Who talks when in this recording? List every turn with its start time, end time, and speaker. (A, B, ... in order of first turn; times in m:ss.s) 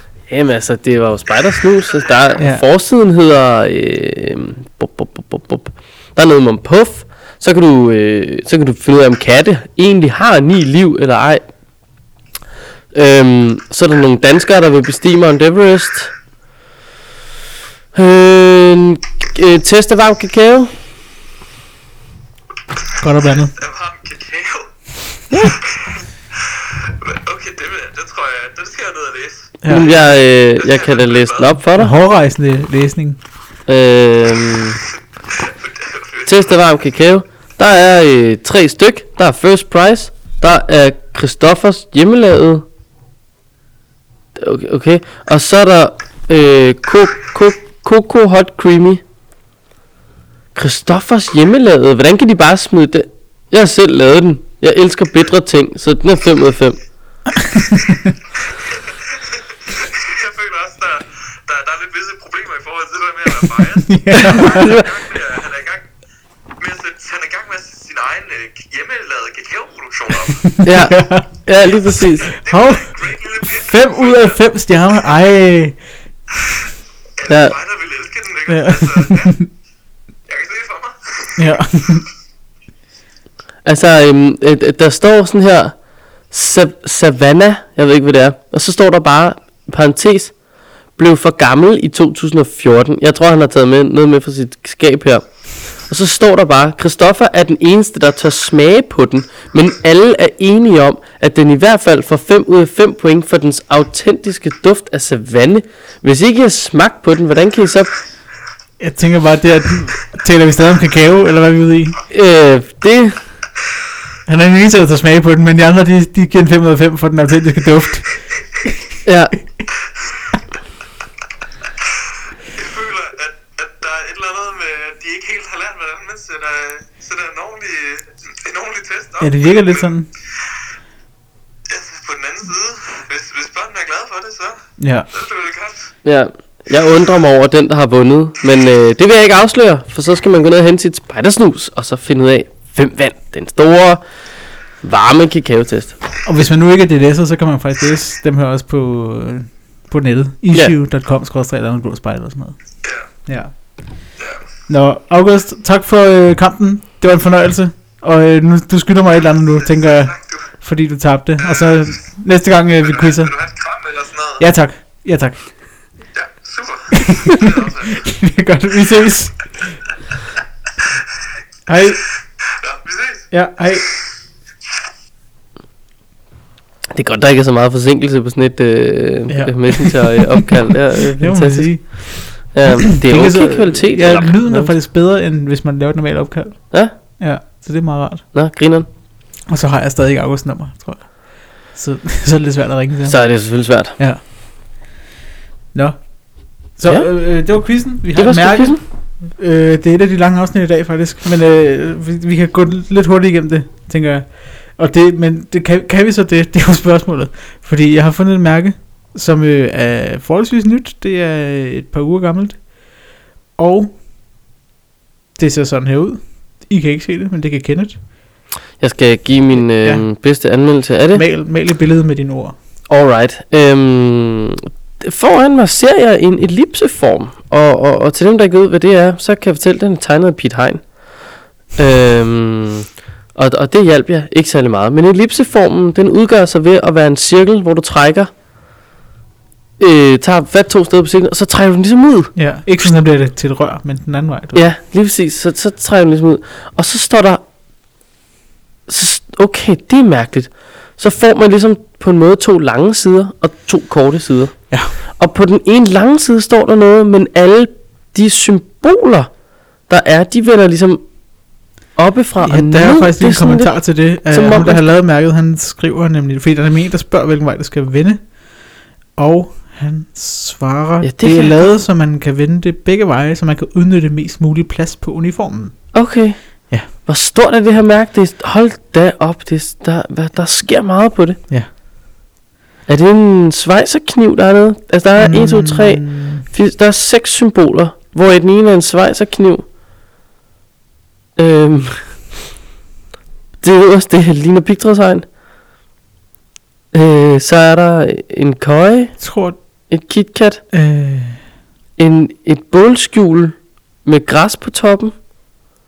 0:00.3-0:11.4 A
0:02.4-0:02.6 B
0:12.9-0:16.1 A
0:17.9-0:20.7 A
0:23.0-0:23.5 B
0:23.4-0:24.7 C
0:25.3-0:25.6 A
0:25.6-0:31.5 C
0:29.7-0:31.9 A
0:31.8-0:33.2 B
0:33.7-0:34.8 A
0:35.3-0:36.3 C
0:36.2-0:42.6 A
0:44.4-0:49.0 A
0:50.5-0:56.8 A
0:57.3-0:58.1 B
0:58.9-1:05.8 C
1:03.5-1:04.8 B
1:04.3-1:05.0 A
1:06.6-1:10.6 C
1:10.1-1:15.8 B
1:10.6-1:12.3 A
1:11.8-1:14.4 C
1:17.2-1:19.4 C
1:17.3-1:17.6 A
1:18.5-1:19.5 B
1:20.3-1:21.5 C
1:21.4-1:22.0 B
1:23.6-1:25.8 A
1:26.3-1:30.4 A
1:31.0-1:35.3 A
1:35.8-1:47.9 A
1:48.8-1:52.0 B
1:52.1-1:53.2 A
1:54.2-1:58.1 B
1:59.0-1:59.3 A
2:02.5-2:09.9 C
2:09.2-2:10.1 B
2:11.7-2:15.9 C
2:14.8-2:15.0 B
2:16.0-2:24.0 A
2:24.8-2:25.9 A
2:26.2-2:32.6 B
2:33.2-2:33.5 B
2:34.2-2:34.4 C
2:34.7-2:43.3 B
2:39.8-2:40.4 C
2:41.4-2:41.9 C
2:43.0-2:44.4 C
2:44.4-2:45.4 B
2:46.1-2:48.0 C
2:46.9-2:49.5 B
2:51.7-2:52.0 B
2:52.4-2:53.3 C
2:53.3-2:53.8 B
2:56.9-3:04.7 A
2:59.3-3:06.6 B
3:07.2-3:08.2 B
3:08.3-3:08.9 A
3:09.5-3:13.2 B
3:13.1-3:14.0 A
3:15.7-3:16.0 B
3:16.7-3:32.7 B
3:18.2-3:18.8 A
3:33.6-3:33.9 B
3:35.4-3:38.0 B
3:38.8-3:41.2 A
3:39.6-3:40.0 B
3:41.1-3:42.5 B
3:42.9-3:50.8 A
3:51.7-3:58.3 A
3:59.8-4:02.3 A
4:02.4-4:04.6 B
4:04.5-4:07.4 A
4:08.9-4:19.3 A
4:19.9-4:21.0 A
4:22.0-4:23.7 A
4:22.4-4:28.3 B
4:24.3-4:24.8 A
4:29.2-4:35.8 B
4:31.0-4:31.6 A
4:35.9-4:41.4 A
4:42.9-4:49.6 A
4:45.2-4:46.4 B
4:51.4-4:52.1 A
4:53.6-4:55.2 A
4:56.9-4:59.2 A
4:59.2-4:59.6 B
4:59.9-5:00.6 A
5:00.7-5:01.4 B
5:02.0-5:05.1 A